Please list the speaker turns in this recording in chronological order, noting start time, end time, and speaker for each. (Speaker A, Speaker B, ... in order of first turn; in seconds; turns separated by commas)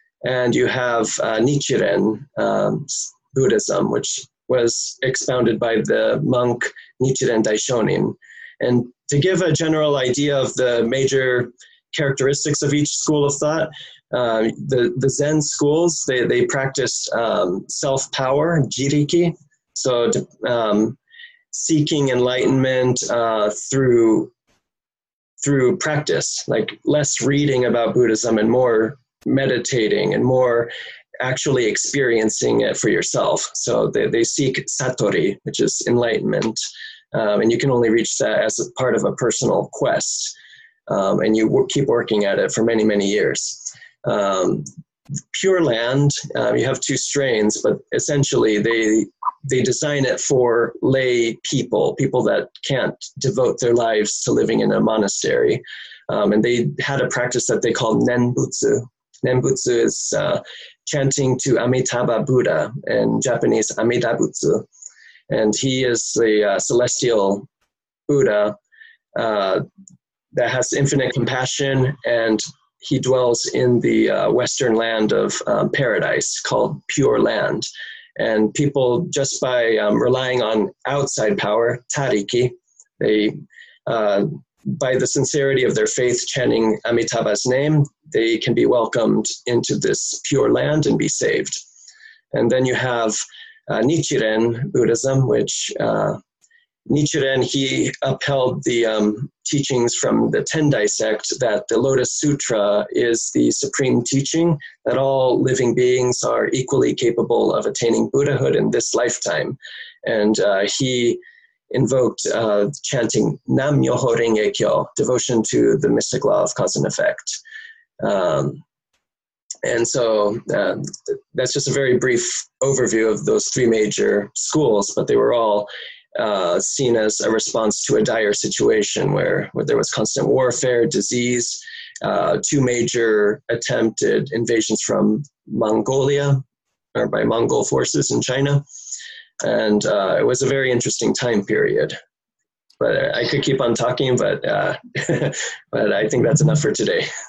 Speaker A: 0.2-21.0, Speaker A: 21.5-24.3, Speaker A: 25.4-36.6, Speaker A: 37.1-40.4, Speaker A: 40.9-44.7, Speaker A: 45.3-64.7, Speaker A: 65.3-67.5, Speaker A: 68.1-68.6, Speaker A: 69.2-69.6, Speaker A: 70.3-91.6, Speaker A: 92.3-96.2, Speaker A: 96.9-111.2, Speaker A: 111.7-117.4, Speaker A: 118.0-118.6, Speaker A: 119.7-136.4, Speaker A: 136.9-138.6, Speaker A: 139.4-142.0, Speaker A: 142.8-147.1